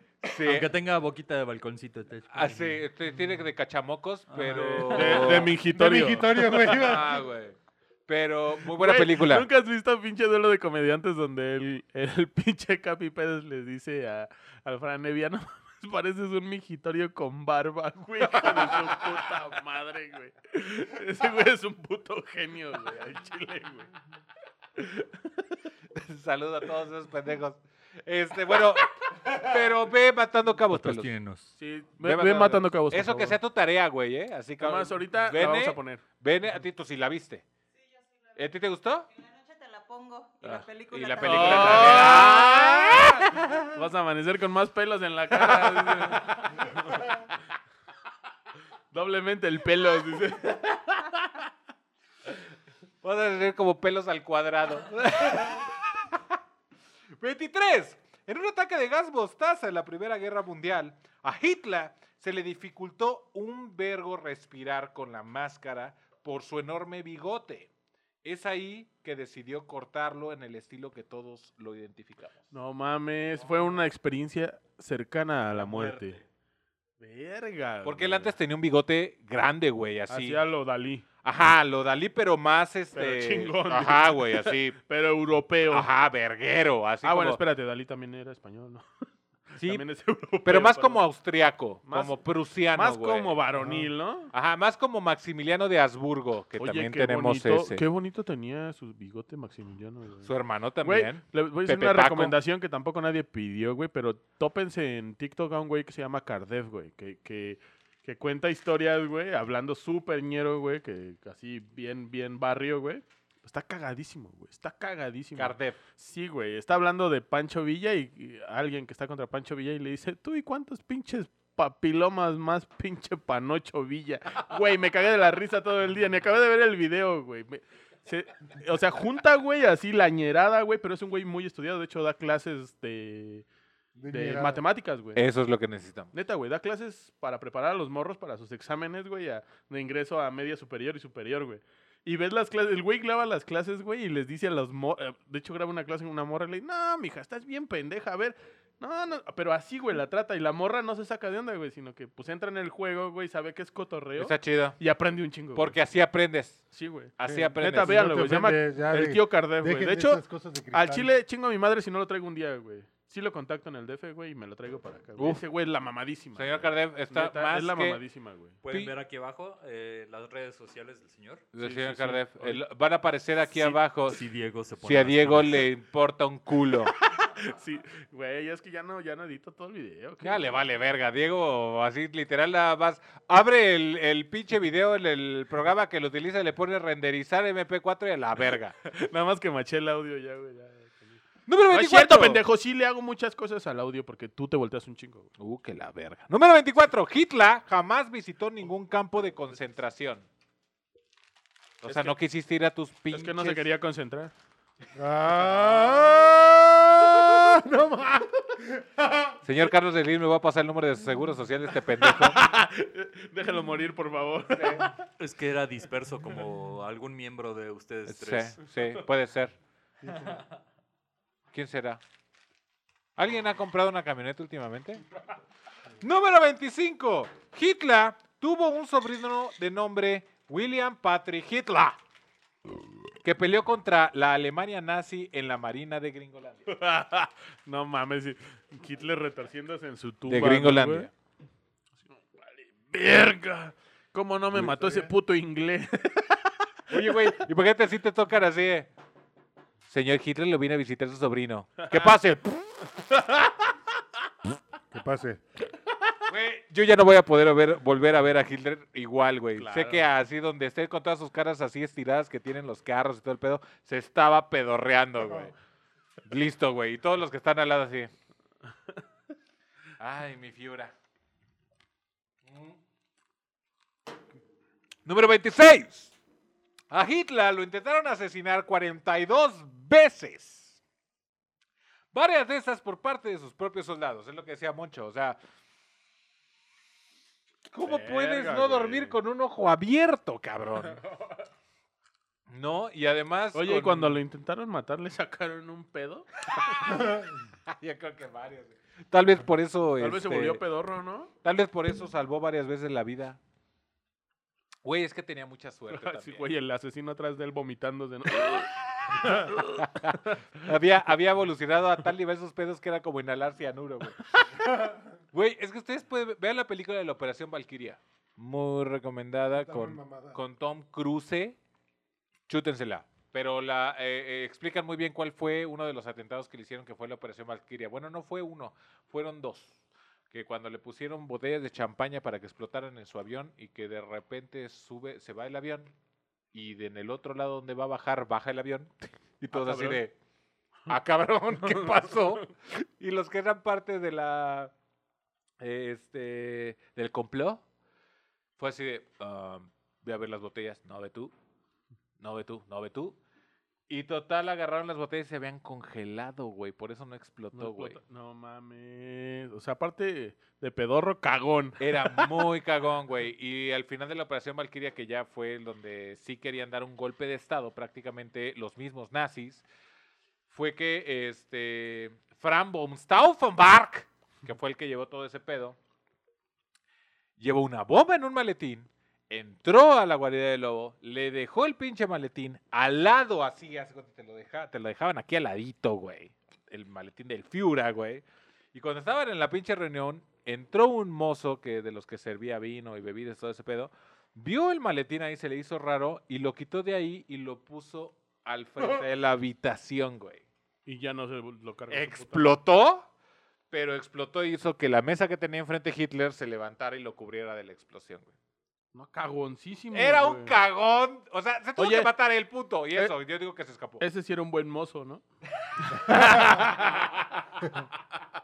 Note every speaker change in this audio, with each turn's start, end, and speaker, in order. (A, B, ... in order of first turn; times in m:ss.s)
0:00.2-0:00.7 A
0:00.4-0:02.8 B
0:02.3-0:05.5 A
0:04.3-0:05.5 B
0:04.5-0:06.8 C
0:05.7-0:07.2 D
0:06.7-0:07.6 A
0:08.1-0:09.5 A
0:08.6-0:23.9 C
0:24.8-0:25.1 C
0:25.9-0:31.2 A
0:30.7-0:31.5 B
0:31.6-0:33.4 C
0:32.0-0:37.4 A
0:34.6-0:36.0 C
0:38.4-0:39.1 A
0:39.1-0:42.6 E
0:40.5-0:43.3 A
0:41.2-0:47.2 C
0:43.3-0:43.6 E
0:46.0-0:46.3 A
0:48.9-0:51.4 C
0:53.0-0:56.4 A
0:57.2-1:07.7 A
1:08.2-1:12.5 A
1:12.5-1:16.2 C
1:15.6-1:16.1 A
1:17.0-1:18.3 C
1:17.8-1:20.4 A
1:20.1-1:21.0 C
1:21.2-1:24.8 A
1:22.9-1:25.9 C
1:25.7-1:27.4 A
1:27.0-1:28.8 C
1:29.5-1:31.0 C
1:29.6-1:29.8 A
1:30.4-1:33.4 A
1:31.8-1:32.2 C
1:32.7-1:34.3 C
1:33.6-1:33.9 D
1:34.3-1:37.8 A
1:36.6-1:40.3 C
1:40.2-1:42.3 A
1:40.8-2:13.4 C
1:55.4-1:55.8 A
2:14.0-2:14.6 D
2:14.1-2:15.2 C
2:15.1-2:16.1 A
2:16.1-2:35.8 C
2:34.2-2:34.8 A
2:35.5-2:36.6 A
2:36.7-2:48.6 C
2:37.2-2:38.0 A
2:37.2-2:41.1 D
2:46.4-2:48.0 A
2:48.6-2:51.4 B
2:48.7-2:48.9 A
2:51.5-2:54.2 A
2:51.6-2:52.6 C
2:53.5-2:55.7 B
2:54.8-2:56.9 A
2:57.1-3:00.6 C
3:00.2-3:08.7 A
3:08.8-3:11.2 C
3:11.5-3:12.4 A
3:11.7-3:15.3 C
3:15.4-3:20.3 A
3:21.8-3:23.6 A
3:21.8-3:22.1 C
3:23.1-3:24.3 C
3:24.9-3:29.4 D
3:29.4-3:32.4 A
3:32.0-3:35.0 C
3:34.5-3:34.9 A
3:35.2-3:38.6 B
3:38.1-3:39.5 A
3:40.0-3:40.4 D
3:41.5-3:42.0 A
3:43.2-3:45.0 A
3:46.0-3:52.0 A
3:53.2-3:56.7 A
3:56.7-4:01.1 C
4:00.3-4:01.1 A
4:02.1-4:07.1 C
4:04.5-4:05.1 D
4:06.9-4:08.9 A
4:09.9-4:12.9 A
4:13.1-4:13.5 C
4:14.9-4:15.4 D
4:16.3-4:25.5 A
4:19.6-4:20.0 C
4:26.2-4:28.1 A
4:30.0-4:30.9 A
4:32.5-4:32.8 A
4:35.0-4:36.1 A
4:36.9-4:40.8 A
4:42.1-4:45.4 A
4:47.7-4:51.0 A
4:47.8-4:49.2 C
4:52.5-4:54.2 A
4:53.5-4:56.4 C
4:56.5-5:00.6 A
5:00.0-5:01.3 C
5:01.4-5:03.4 A
5:04.8-5:06.5 A
5:05.9-5:10.3 C
5:09.1-5:14.7 A
5:14.6-5:15.0 D
5:15.3-5:21.6 A
5:19.6-5:20.4 D
5:22.5-5:29.8 A
5:30.3-5:35.9 A
5:36.5-5:40.1 A
5:39.5-5:40.0 C
5:40.9-5:44.7 A
5:41.5-5:42.5 C
5:45.6-5:47.6 A
5:48.6-5:51.3 A
5:52.2-5:53.2 A
5:53.9-5:58.0 A
5:57.5-6:02.4 C
6:01.8-6:09.6 A
6:10.5-6:15.8 A
6:17.4-6:28.2 A
6:28.7-6:40.4 A
6:40.8-6:42.6 C
6:41.9-6:43.1 A
6:43.7-6:48.3 A
6:48.9-6:50.5 C
6:49.9-6:54.0 A
6:51.8-6:52.1 C
6:54.0-6:55.2 C
6:55.8-6:57.1 C
6:55.9-6:57.0 A